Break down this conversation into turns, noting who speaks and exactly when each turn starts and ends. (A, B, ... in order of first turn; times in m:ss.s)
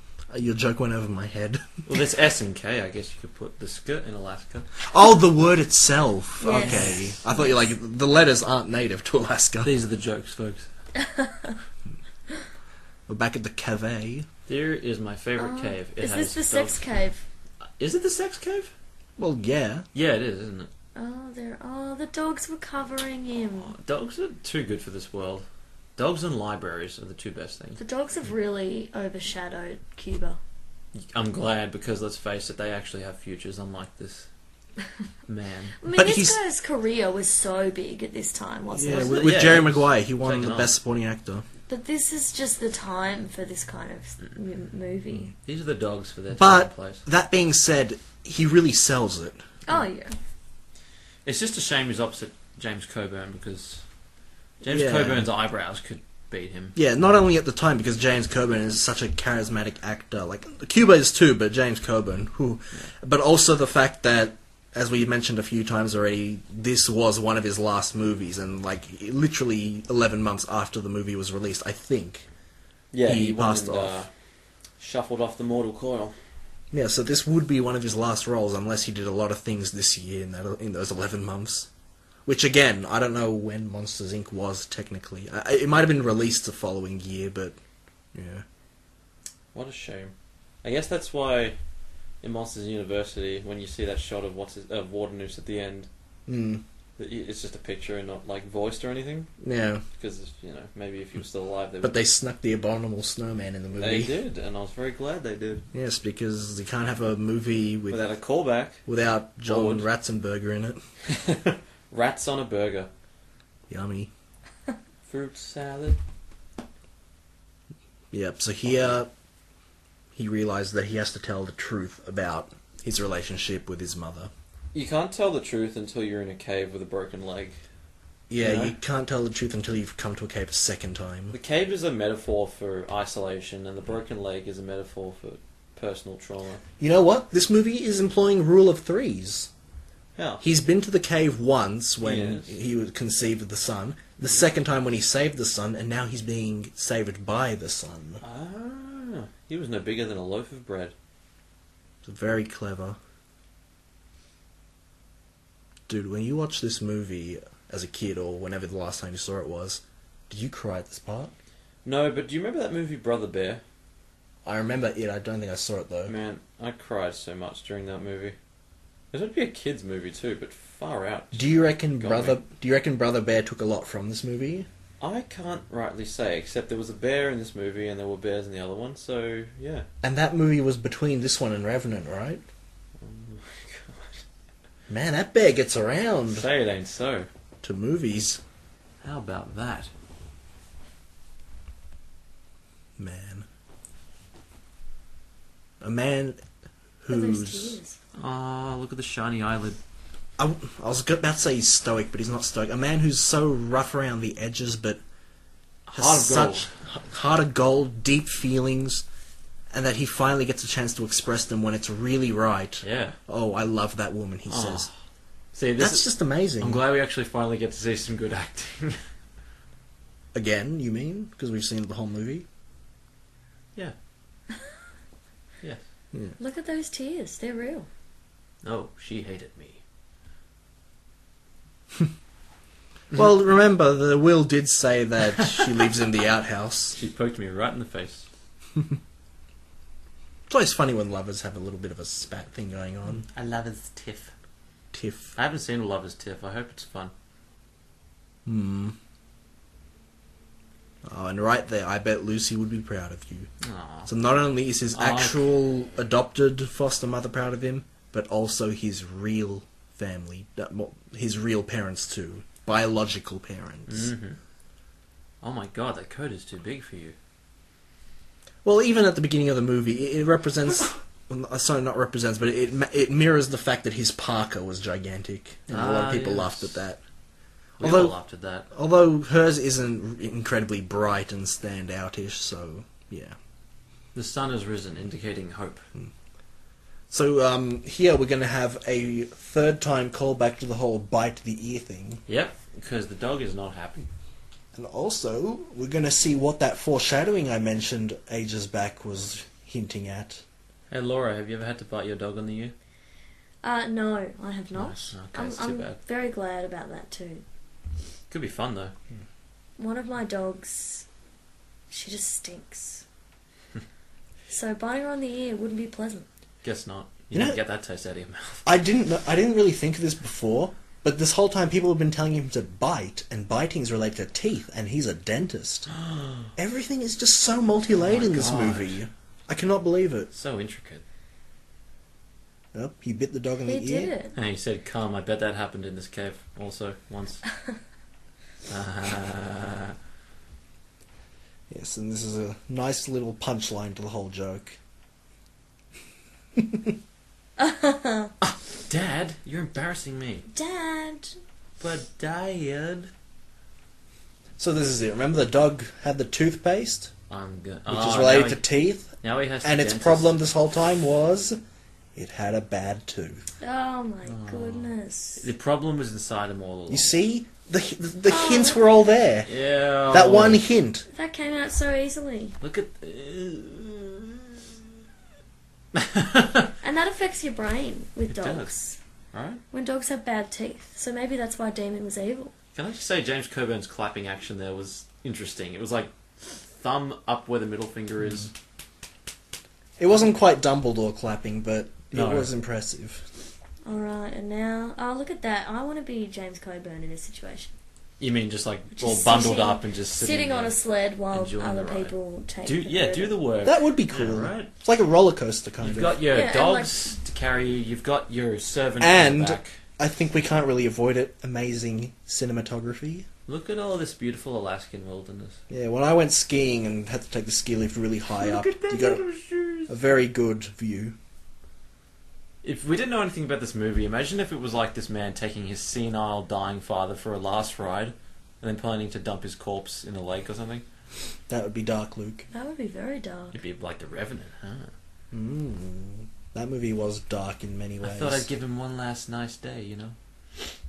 0:00.3-0:01.7 A
0:01.9-0:04.7 B
0:04.9-0:09.7 A
0:06.4-0:07.2 C
0:06.4-0:07.2 B
0:09.6-0:10.7 B
0:11.0-0:11.6 C
0:13.1-0:14.3 A
0:14.5-0:16.8 B
0:15.4-0:17.2 C
0:17.8-0:18.7 B
0:19.2-0:19.9 A
0:19.9-0:20.7 B
0:21.0-0:23.7 C
0:23.6-0:25.5 B
0:26.0-0:27.8 B
0:27.8-0:30.4 C
0:31.0-0:34.3 B
0:35.3-0:35.8 B
0:35.8-0:39.2 C
0:35.9-0:36.4 A
0:38.7-0:41.4 A
0:38.9-0:40.7 B
0:41.7-0:45.3 C
0:45.5-0:47.0 B
0:46.3-0:49.4 A
0:49.7-0:50.2 C
0:51.3-0:53.8 B
0:54.6-0:56.8 B
0:54.7-0:55.3 A
0:56.8-1:12.3 A
1:12.9-1:14.1 B
1:13.0-1:14.0 A
1:14.8-1:16.2 B
1:16.7-1:21.7 A
1:22.3-1:27.6 A
1:28.1-1:28.4 A
1:29.5-1:31.6 B
1:32.2-1:35.9 B
1:36.3-1:36.6 A
1:37.0-1:39.3 B
1:39.4-1:39.8 A
1:40.0-1:42.0 B
1:41.8-1:44.2 A
1:43.7-1:45.7 B
1:45.7-1:48.0 A
1:47.9-1:48.8 B
1:48.9-1:50.8 A
1:49.5-1:49.9 B
1:51.1-1:52.9 B
1:53.7-1:54.1 A
1:55.1-1:56.0 B
1:58.1-1:59.1 A
2:00.2-2:04.3 A
2:04.7-2:07.6 B
2:08.3-2:11.4 A
2:08.4-2:08.8 B
2:11.3-2:16.6 B
2:16.8-2:19.5 A
2:20.2-2:20.4 B
2:20.4-2:28.2 A
2:22.0-2:22.6 B
2:28.2-2:30.9 B
2:32.0-2:33.0 A
2:35.9-2:41.3 A
2:41.8-2:43.6 B
2:44.4-2:46.1 A
2:46.1-2:48.4 B
2:49.1-2:52.4 B
2:51.3-2:54.7 A
2:55.0-2:59.9 B
3:00.0-3:02.4 A
3:03.0-3:04.2 B
3:04.9-3:06.4 A
3:06.3-3:07.3 B
3:07.6-3:08.4 A
3:09.0-3:09.9 B
3:13.0-3:13.5 A
3:15.8-3:16.4 A
3:17.0-3:17.8 A
3:17.1-3:18.0 C
3:18.2-3:19.8 B
3:20.4-3:25.0 A
3:25.9-3:26.7 B
3:26.0-3:29.0 A
3:29.7-3:34.9 A
3:32.8-3:33.2 B
3:34.5-3:34.9 B
3:35.5-3:39.0 B
3:35.8-3:36.8 A
3:40.3-3:42.5 A
3:46.4-3:47.9 C
3:48.6-3:49.8 B
3:53.1-3:57.0 A
3:55.4-3:55.7 B
3:56.9-3:58.3 B
4:00.5-4:03.2 A
4:03.2-4:04.3 B
4:04.9-4:05.3 A
4:05.4-4:07.1 B
4:08.4-4:09.0 A
4:11.0-4:13.5 A
4:13.6-4:14.1 B
4:14.1-4:24.1 A
4:14.9-4:15.5 B
4:23.9-4:24.4 B
4:25.4-4:27.2 B
4:28.6-4:37.0 A
4:35.7-4:36.8 B
4:37.8-4:38.7 B
4:37.8-4:38.2 A
4:38.7-4:43.4 A
4:44.2-4:45.8 B
4:47.1-4:52.2 A
4:52.3-4:54.1 B
4:54.7-5:00.4 A
5:00.9-5:02.7 B
5:03.6-5:07.4 C
5:04.7-5:06.0 B
5:08.3-5:08.9 B
5:09.8-5:11.1 C
5:11.9-5:13.0 C
5:14.5-5:16.3 C
5:16.6-5:18.6 B
5:17.3-5:17.6 A
5:18.6-5:25.9 A
5:25.9-5:26.5 B
5:26.6-5:30.3 A
5:27.9-5:29.0 B
5:30.3-5:31.0 B
5:32.7-5:34.1 A
5:33.6-5:34.3 C
5:34.3-5:37.4 B
5:38.7-5:40.0 B
5:41.7-5:44.8 A
5:46.6-5:47.0 A
5:47.6-5:48.3 C
5:48.4-5:50.5 B
5:50.5-5:51.4 C
5:51.8-5:53.1 B
5:54.6-5:57.1 A
5:57.3-5:58.6 B
5:57.9-6:01.6 A
5:59.2-6:00.4 B
6:02.2-6:03.4 A
6:03.6-6:05.5 C
6:04.2-6:07.2 B
6:06.9-6:09.5 A
6:08.3-6:08.8 C
6:09.5-6:10.7 B
6:10.1-6:11.1 A
6:11.1-6:12.6 C
6:12.6-6:14.6 B
6:15.9-6:16.7 B
6:16.8-6:19.0 C
6:18.3-6:18.7 B
6:19.3-6:19.6 B
6:19.7-6:22.5 C
6:22.8-6:28.5 B
6:30.0-6:33.2 A
6:32.1-6:32.5 B
6:33.9-6:37.7 C
6:38.2-6:40.8 B
6:39.0-6:43.4 C
6:41.3-6:44.7 B
6:43.6-6:46.2 A
6:45.8-6:49.8 B
6:46.3-6:46.9 C
6:49.0-6:53.3 A
6:53.5-6:55.6 B
6:55.7-6:59.2 A
6:58.4-7:00.0 B
6:59.9-7:01.2 A
7:02.6-7:10.8 B
7:11.5-7:12.5 A
7:12.5-7:13.6 C
7:13.5-7:14.9 B
7:15.3-7:18.5 A
7:18.0-7:20.2 B